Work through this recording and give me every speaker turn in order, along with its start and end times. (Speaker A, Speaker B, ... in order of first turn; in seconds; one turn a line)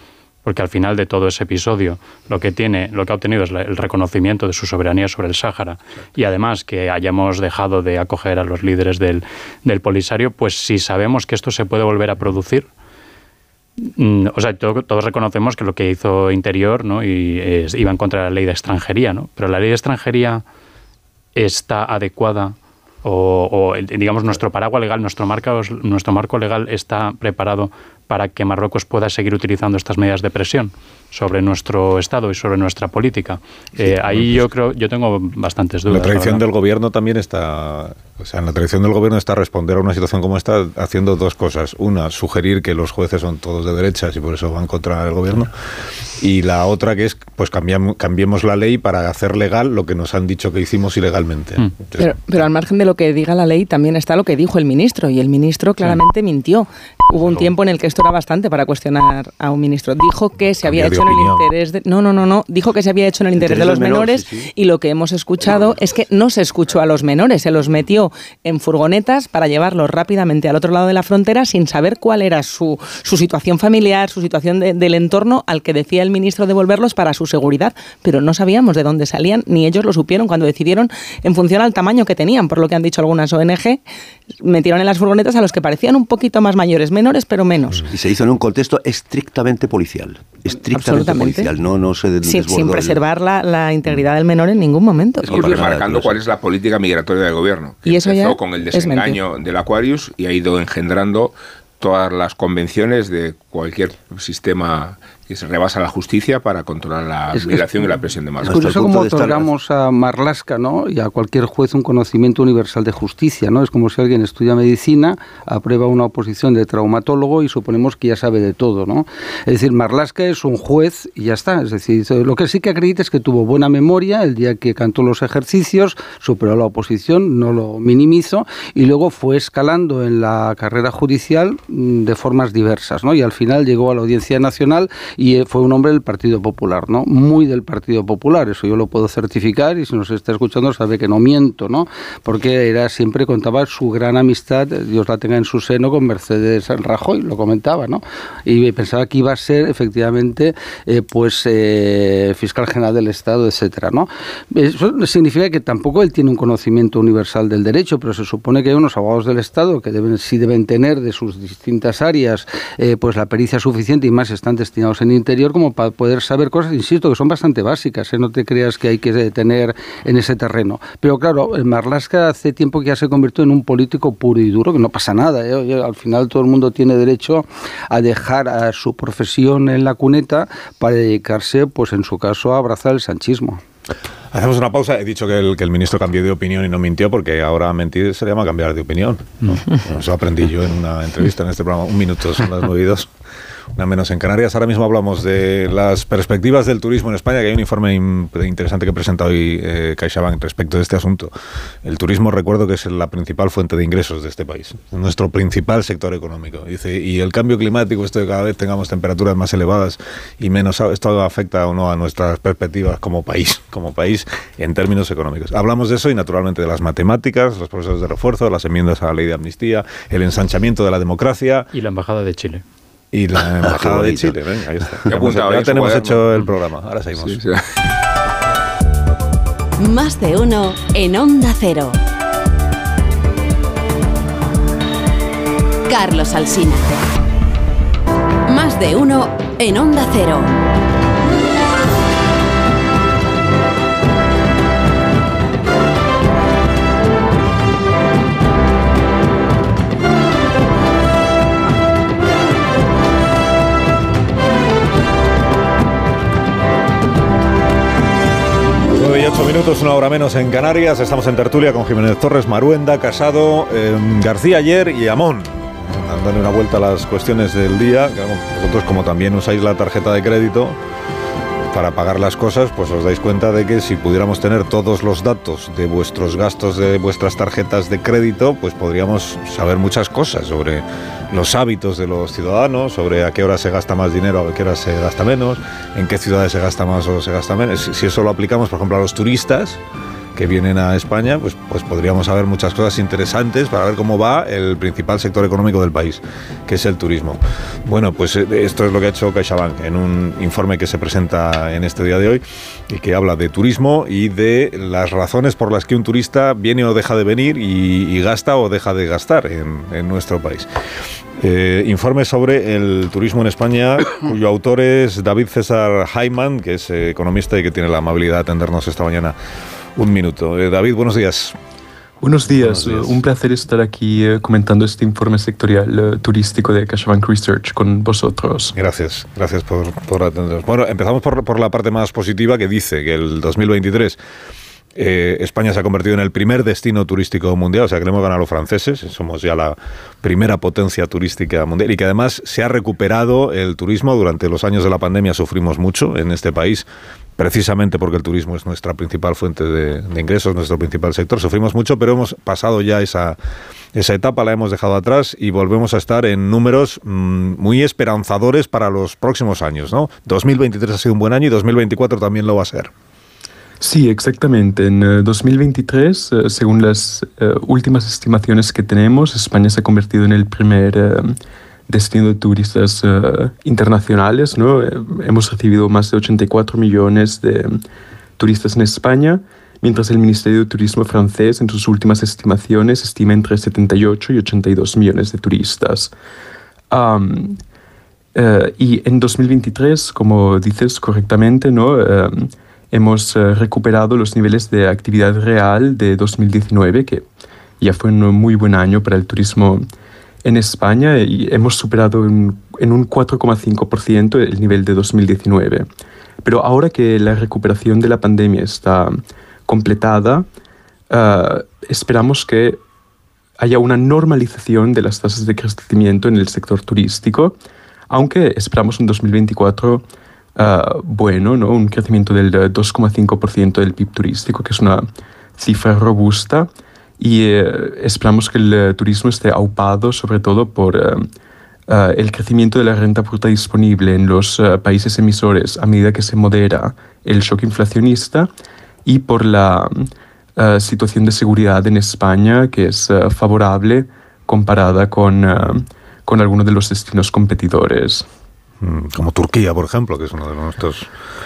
Speaker A: 0.4-12.7
Speaker A: 13.8-20.4
Speaker A: 21.4-36.4
Speaker B: 33.9-34.5
Speaker B: 35.9-45.5
Speaker B: 46.2-52.0
Speaker C: 52.0-83.8
Speaker B: 57.2-57.5
Speaker B: 60.6-61.4
Speaker D: 63.4-64.5
Speaker C: 84.4-87.9
Speaker D: 87.9-93.0
Speaker C: 90.7-91.5
Speaker C: 92.2-95.5
Speaker E: 95.2-108.6
Speaker D: 95.3-96.2
Speaker C: 97.8-99.2
Speaker F: 107.3-183.6
Speaker D: 108.4-109.5
Speaker B: 184.3-193.1
Speaker B: 193.8-201.3
Speaker B: 201.8-221.7
Speaker A: 221.7-222.6
Speaker B: 223.1-227.4
Speaker D: 223.6-224.4
Speaker E: 225.1-226.2
Speaker E: 227.2-227.6
Speaker G: 229.8-231.9
Speaker G: 235.9-236.9
Speaker G: 238.5-240.5
Speaker B: 258.9-270.8
Speaker B: 271.7-289.8
Speaker B: 290.4-310.7
Speaker B: 311.4-319.4
Speaker B: 320.0-321.5
Speaker H: 322.2-328.7
Speaker B: 322.6-323.1
Speaker B: 328.7-334.2
Speaker B: 334.9-346.9
Speaker B: 347.4-353.4
Speaker B: 353.9-362.9
Speaker H: 363.8-371.4
Speaker H: 371.9-377.8
Speaker H: 378.4-386.1
Speaker H: 386.9-387.6
Speaker H: 388.3-397.2
Speaker H: 397.8-399.8
Speaker H: 400.4-405.9
Speaker H: 406.4-410.4
Speaker H: 411.1-412.8
Speaker H: 413.6-417.5
Speaker H: 418.1-420.0
Speaker H: 420.6-425.1
Speaker H: 425.6-426.7
Speaker H: 427.2-431.3
Speaker H: 431.9-438.5
Speaker H: 439.1-448.3
Speaker B: 448.8-451.1